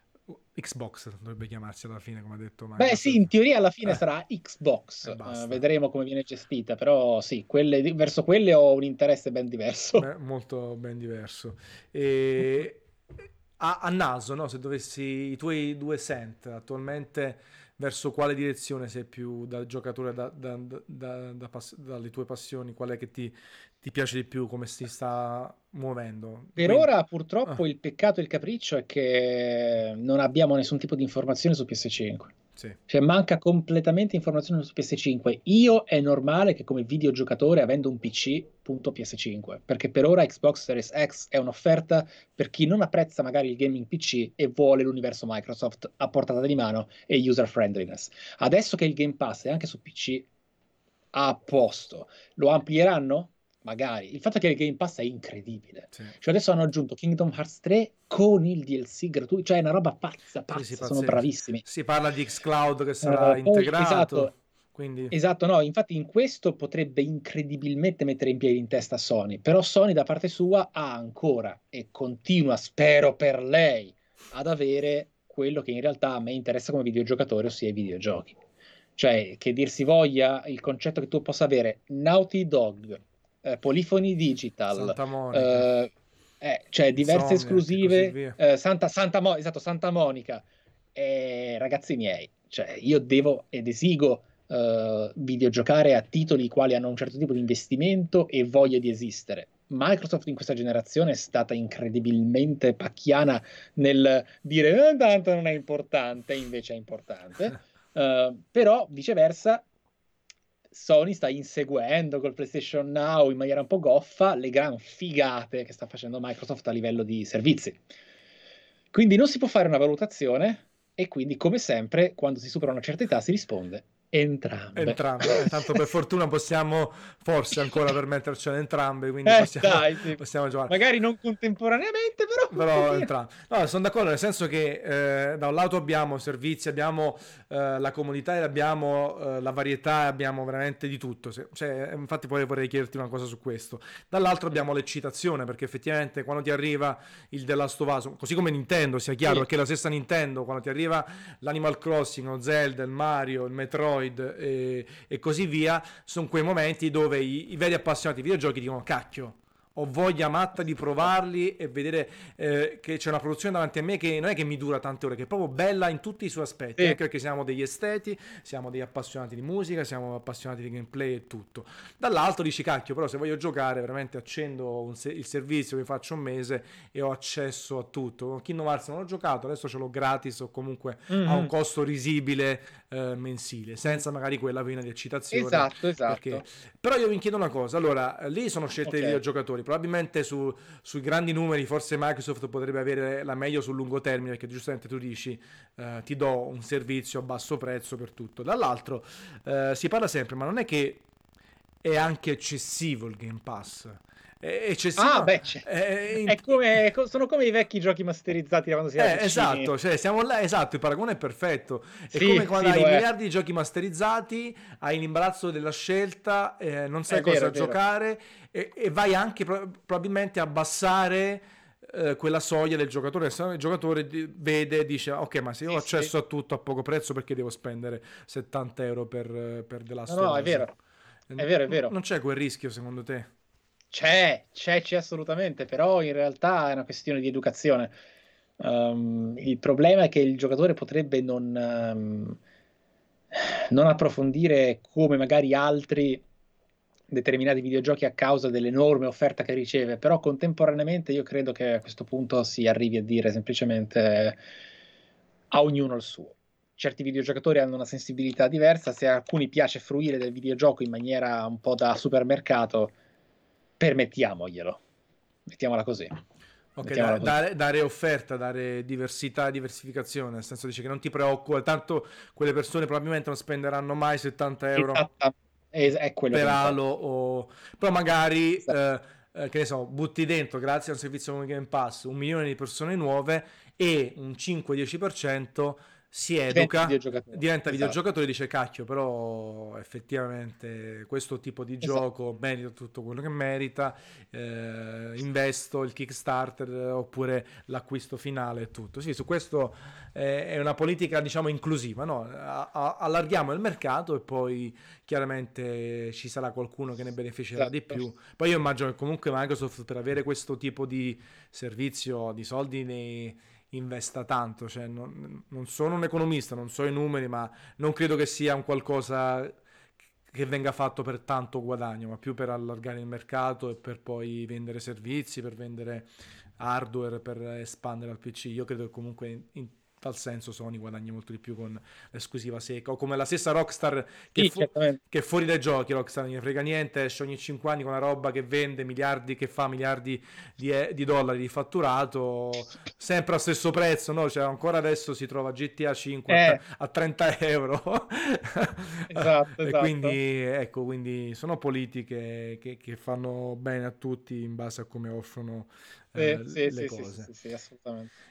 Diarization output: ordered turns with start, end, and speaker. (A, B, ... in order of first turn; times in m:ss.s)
0:00.5-0:03.3 A
0:02.8-0:10.1 B
0:05.0-0:05.6 A
0:10.0-0:12.8 A
0:13.6-0:26.9 A
0:26.6-0:32.3 B
0:32.9-0:50.3 B
0:51.1-1:01.6 B
1:00.5-1:05.1 A
1:03.0-1:04.3 B
1:05.1-1:18.4 B
1:19.0-1:49.6 B
1:24.7-1:25.7 A
1:27.0-1:28.4 A
1:50.7-1:57.8 B
1:58.9-2:05.7 B
2:04.7-2:10.7 A
2:09.2-2:13.1 B
2:12.5-3:21.0 A
3:01.1-3:01.5 B
3:05.3-3:06.4 B
3:08.8-3:09.2 B
3:21.8-3:26.4 A
3:25.0-3:25.7 B
3:26.2-3:29.7 B
3:29.0-3:50.7 A
3:32.1-3:33.0 B
3:37.1-3:37.8 B
3:45.7-3:46.1 B
3:50.1-3:50.7 B
3:51.3-3:53.3 A
3:51.4-3:51.9 B
3:53.9-3:57.9 B
3:58.6-4:02.4 B
4:03.3-4:06.2 B
4:07.1-4:14.4 B
4:15.5-4:22.9 B
4:23.8-4:24.8 B
4:25.5-4:26.2 B
4:26.8-4:35.0 A
4:26.8-4:27.4 B
4:34.8-4:36.8 B
4:36.3-5:19.6 A
4:46.5-4:48.0 B
5:07.6-5:08.0 B
5:20.3-5:57.3 A
5:34.3-5:35.0 B
5:46.3-5:46.6 B
5:49.1-5:50.2 B
5:56.2-5:58.1 B